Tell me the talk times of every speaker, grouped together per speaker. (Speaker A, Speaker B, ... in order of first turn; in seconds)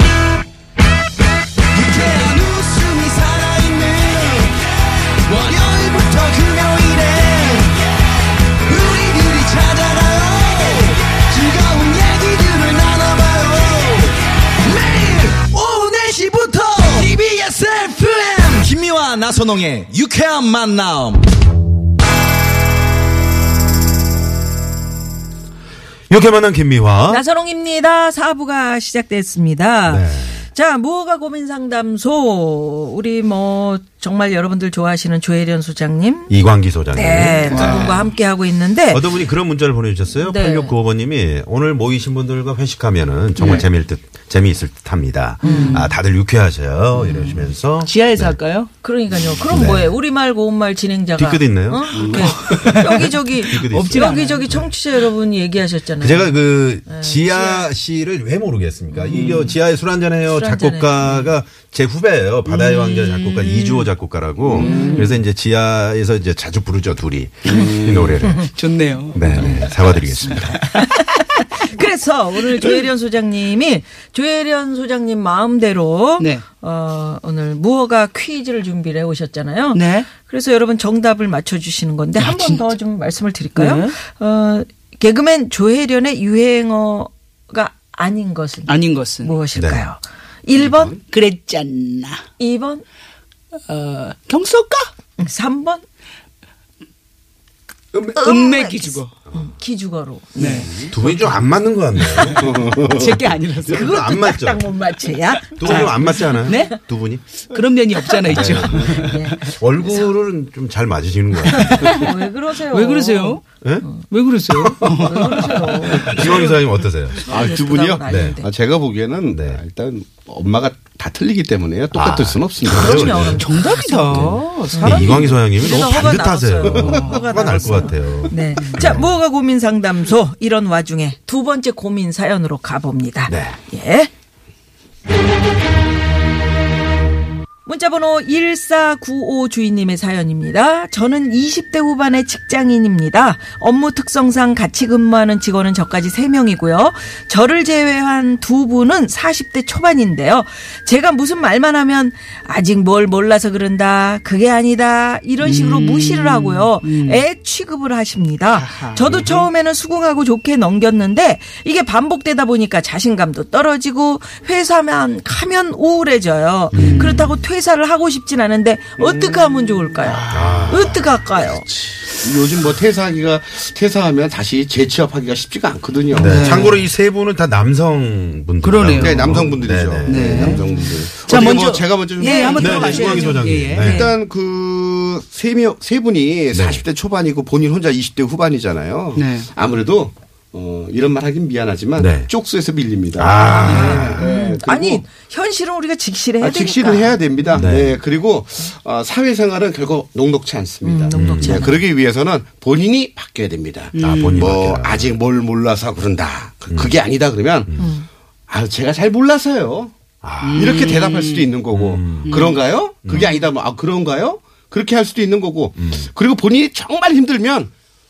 Speaker A: 1.8-4.5, 5.3-7.8, 8.7-14.2, 14.7-21.2
Speaker B: 26.1-27.2, 29.9-30.4, 36.3-38.0, 38.9-48.4, 49.1-50.0, 51.2-54.6, 56.0-68.5, 69.1-70.6, 89.5-89.8, 100.9-102.5, 103.6-104.7, 105.6-107.2, 108.2-112.0, 114.5-117.2, 118.1-118.4, 119.3-119.6, 121.9-129.1, 133.3-133.6, 166.7-167.4, 170.3-171.1, 176.2-180.6, 182.6-184.1, 186.5-186.8, 192.0-192.3, 193.2-194.2, 197.5-198.0, 201.1-201.8, 204.0-205.1, 206.7-207.0, 210.2-210.8, 211.7-212.5, 213.0-213.3, 215.8-216.1
Speaker C: 27.1-36.4, 36.9-39.1, 40.2-40.8, 45.4-45.9, 47.0-47.4, 48.8-57.7, 58.9-59.5, 60.3-61.3, 64.6-65.2, 68.2-68.5, 69.3-69.8, 70.7-91.0, 92.4-92.8, 95.2-95.8, 98.2-101.1, 102.1-102.3, 103.7-106.7, 108.2-109.4, 111.6-114.0, 114.8-116.6, 117.2-118.5, 122.7-134.1, 137.7-171.7, 182.2-184.1, 193.4-197.7, 200.8-201.8, 207.8-208.1
Speaker D: 37.5-37.9, 45.5-45.8, 47.9-48.7, 52.3-52.6, 53.7-54.5, 62.6-63.8, 68.6-69.3, 79.8-80.0, 82.3-82.7, 83.6-83.9, 88.7-89.3, 91.1-92.2, 93.7-94.9, 98.3-99.1, 100.4-100.7, 103.0-103.7, 105.7-105.9, 106.5-106.7, 107.5-109.3, 112.7-113.4, 114.1-115.2, 123.4-125.3, 155.4-157.2, 158.6-159.3, 166.8-167.2, 176.2-176.8, 178.6-179.3, 180.1-184.1, 189.2-189.4, 204.0-204.5, 210.4-211.5, 212.2-212.5
Speaker E: 52.0-52.7, 64.5-65.0, 67.5-68.2, 90.5-91.0, 97.9-98.3, 100.5-101.0, 102.3-103.3, 108.7-109.0, 116.0-116.4, 117.2-123.4, 126.7-127.0, 172.1-176.6, 178.9-183.2, 183.8-195.0, 196.4-207.8, 208.5-209.9, 210.5-217.7